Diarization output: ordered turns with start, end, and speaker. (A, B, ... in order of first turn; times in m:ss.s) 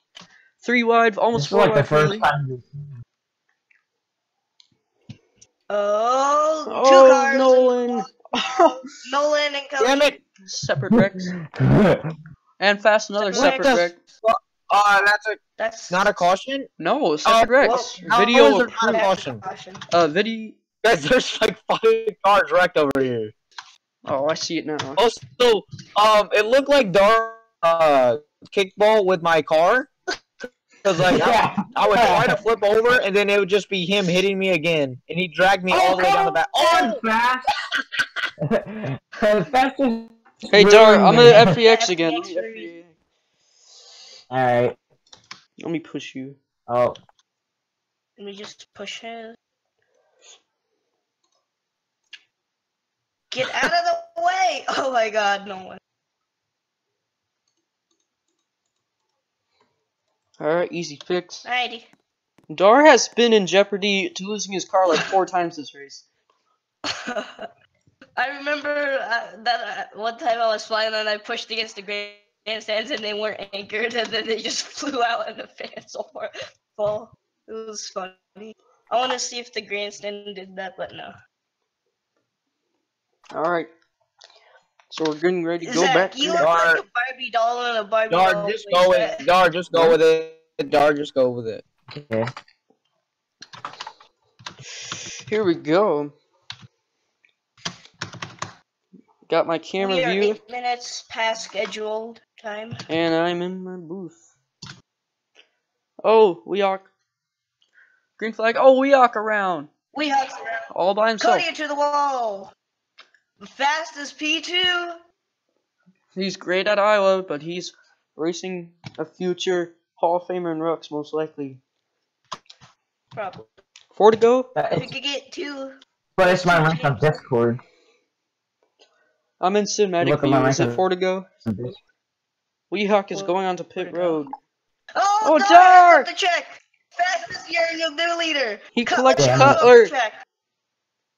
0:00.6-0:02.3 A
0:01.3-0:02.7 B
0:05.7-0:08.4 C
0:06.7-0:08.8 A
0:09.0-0:10.1 C
0:09.8-0:10.2 D
0:10.4-0:11.3 A
0:11.4-0:12.1 B
0:12.6-0:13.9 A
0:13.2-0:13.8 C
0:13.3-0:16.7 D
0:15.6-0:16.2 C
0:16.8-0:19.0 A
0:17.2-0:19.4 D
0:17.6-0:17.9 C
0:18.7-0:19.8 C
0:19.9-0:20.6 A
0:20.8-0:23.3 D
0:24.0-0:25.0 A
0:25.0-0:29.9 D
0:30.8-0:37.0 D
0:31.1-0:32.4 B
0:35.7-0:37.0 C
0:36.6-0:37.4 B
0:38.5-0:41.6 B
0:40.5-0:42.9 A
0:41.5-0:42.7 C
0:44.3-0:44.8 B
0:45.6-0:46.4 A
0:46.7-0:47.0 B
0:48.2-0:49.4 C
0:53.3-0:55.8 C
1:00.4-1:01.4 A
1:01.4-1:01.9 C
1:02.5-1:06.0 A
1:06.9-1:07.5 C
1:08.2-1:21.1 C
1:23.3-1:23.7 A
1:24.9-1:26.5 A
1:25.6-1:29.2 C
1:26.4-1:26.8 D
1:28.1-1:31.6 D
1:32.0-1:32.3 B
1:35.3-1:36.1 A
1:39.3-1:40.4 A
1:39.8-1:42.8 C
1:42.9-1:44.2 A
1:46.0-1:46.9 A
1:48.2-1:49.7 A
1:49.9-1:50.6 C
1:50.7-1:51.5 A
1:51.2-1:52.5 C
1:53.4-1:55.0 C
1:56.1-2:01.6 A
2:03.1-2:03.5 C
2:03.9-2:04.5 A
2:04.6-2:04.9 B
2:04.8-2:05.7 C
2:06.2-2:07.6 B
2:06.3-2:07.1 C
2:09.4-2:11.2 A
2:10.0-2:10.8 B
2:11.5-2:11.7 B
2:12.7-2:14.3 A
2:13.1-2:14.2 C
2:15.0-2:20.2 C
2:15.2-2:16.1 A
2:18.7-2:19.9 A
2:19.2-2:19.6 B